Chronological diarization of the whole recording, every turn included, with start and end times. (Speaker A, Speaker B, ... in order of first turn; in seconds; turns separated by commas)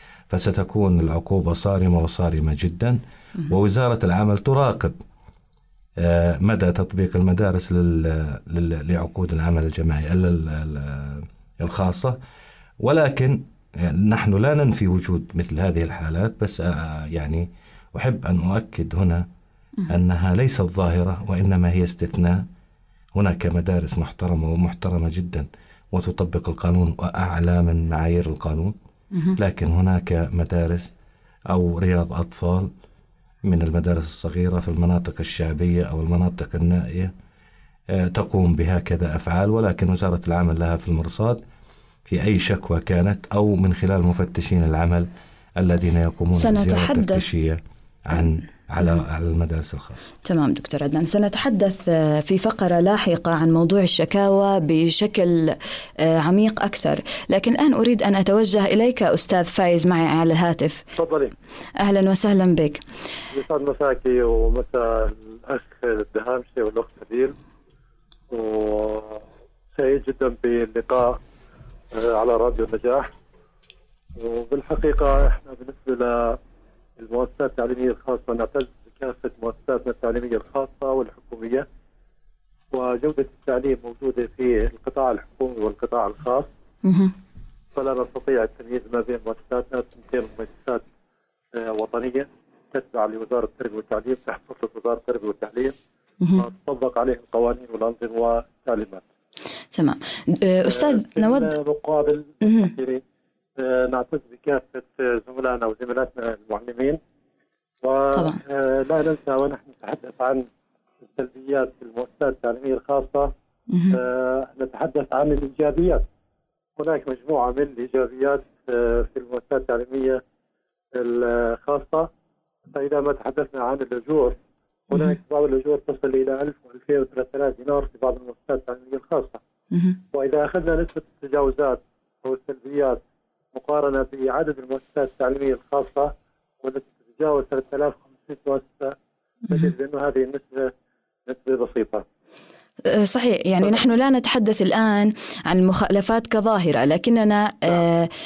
Speaker A: 0.3-5.0, Speaker A: 6.0-12.2, Speaker A: 12.8-19.2, Speaker A: 19.9-22.4, Speaker A: 23.1-28.7, Speaker A: 29.4-30.9, Speaker A: 31.5-32.7, Speaker A: 33.5-37.1, Speaker A: 37.9-41.4, Speaker A: 42.1-50.1, Speaker B: 46.4-47.2, Speaker B: 50.2-60.8, Speaker C: 61.0-61.3, Speaker B: 61.8-62.8, Speaker C: 63.3-67.3, Speaker C: 68.3-69.2, Speaker C: 69.7-71.2, Speaker C: 71.9-73.1, Speaker C: 74.2-76.4, Speaker C: 77.0-81.7, Speaker C: 82.7-86.5, Speaker B: 86.8-87.1, Speaker C: 87.7-90.8, Speaker C: 91.5-95.8, Speaker C: 96.4-99.0, Speaker B: 99.7-101.5, Speaker C: 100.7-103.0, Speaker B: 102.4-102.7, Speaker C: 103.6-107.0, Speaker C: 107.8-110.5, Speaker B: 108.1-108.4, Speaker C: 111.1-113.3, Speaker B: 113.7-114.0, Speaker C: 113.9-116.0, Speaker C: 116.8-120.2, Speaker C: 121.0-122.1, Speaker C: 122.7-124.3, Speaker C: 124.9-129.4, Speaker B: 129.7-130.0, Speaker C: 130.1-133.0, Speaker C: 133.5-136.1, Speaker C: 136.6-138.9, Speaker C: 139.5-140.7, Speaker C: 141.3-142.0, Speaker B: 142.9-148.1